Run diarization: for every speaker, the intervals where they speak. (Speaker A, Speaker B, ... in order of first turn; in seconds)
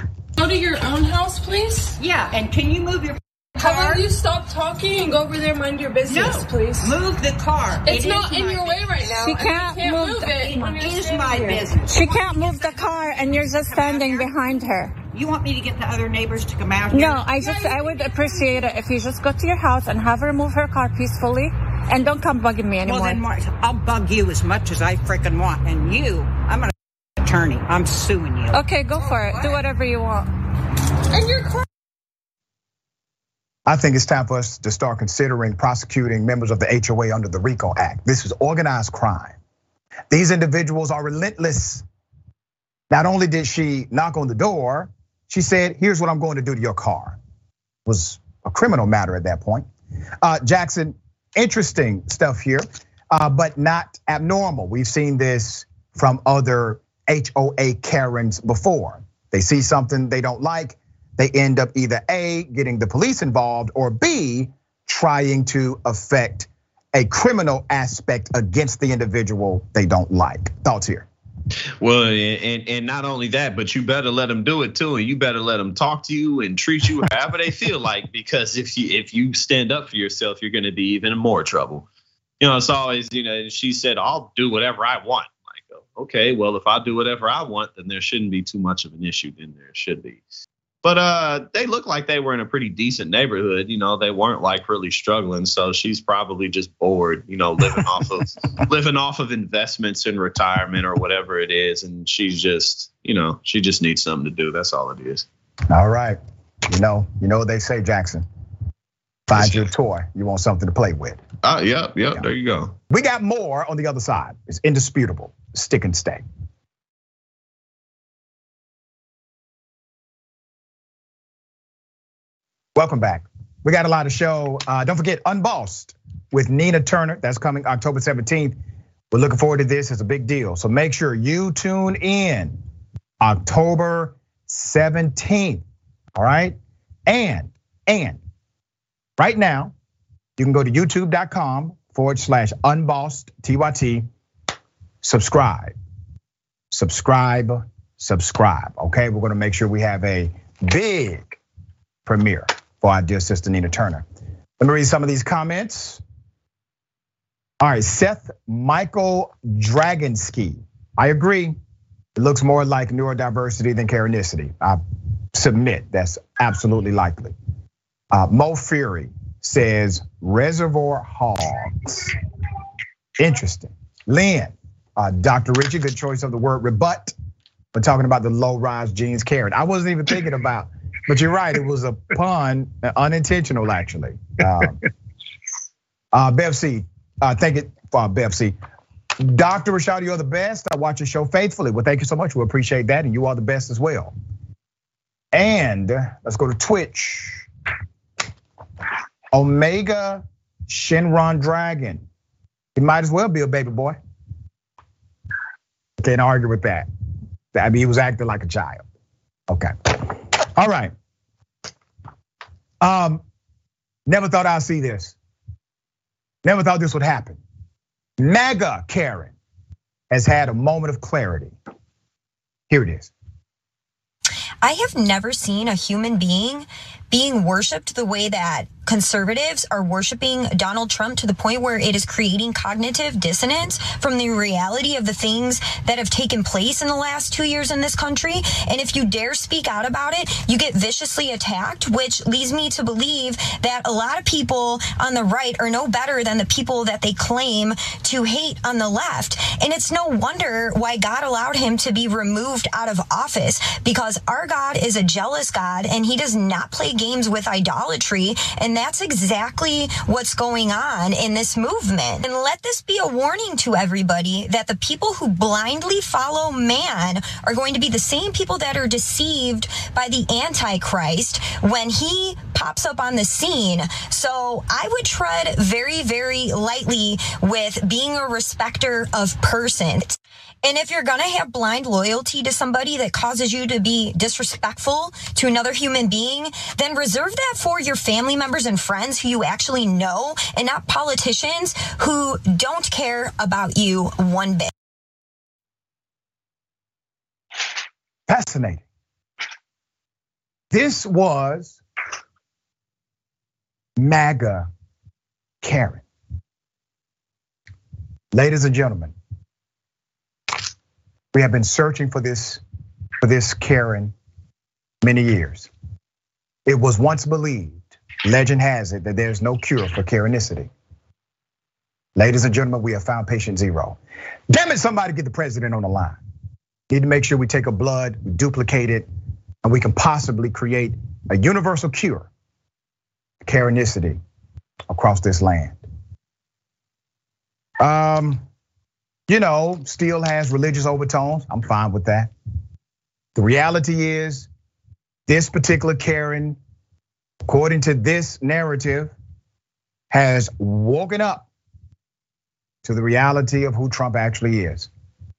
Speaker A: 0.3-2.0, 3.6-7.0, 7.8-11.7
Speaker B: 2.0-4.1, 6.0-9.5, 10.2-14.3, 15.1-17.4, 22.8-28.6
Speaker C: 9.2-10.5, 11.8-15.0, 16.9-23.2, 28.5-30.3
Speaker D: 33.6-39.4, 40.1-41.8, 42.9-47.2, 47.9-49.6, 50.2-71.1, 105.7-106.2, 106.7-108.2, 109.3-111.2, 112.9-116.2, 122.7-128.6, 129.1-132.6, 133.2-135.6, 136.2-136.6, 137.1-138.2, 139.2-139.7, 140.4-144.1, 145.0-145.7, 146.7-151.4, 152.1-154.0, 154.6-156.0, 157.6-161.6, 162.2-164.8, 165.3-167.3, 168.1-172.1, 173.2-177.1, 177.7-184.8, 186.1-188.6, 189.2-194.1, 195.3-197.4, 199.3-202.0, 202.8-204.0, 206.0-206.9, 207.5-208.8, 209.5-210.9, 212.8-213.2, 214.1-215.1, 216.4-217.4, 218.2-219.3, 220.1-221.5, 222.7-223.1, 298.3-298.8, 300.7-301.8, 304.0-304.7, 305.6-306.0, 308.3-309.1, 311.3-312.6, 313.2-314.1, 315.0-315.7, 316.6-320.7, 322.1-324.0, 324.5-326.2, 326.9-329.1, 329.6-332.3, 333.4-334.2, 334.9-335.8, 337.8-338.4, 339.3-342.3, 343.3-344.5, 345.3-346.6, 347.4-349.1, 350.1-351.5, 352.8-354.9
Speaker E: 71.8-81.8, 82.4-90.2, 90.8-105.2, 111.4-112.7
Speaker F: 224.6-294.7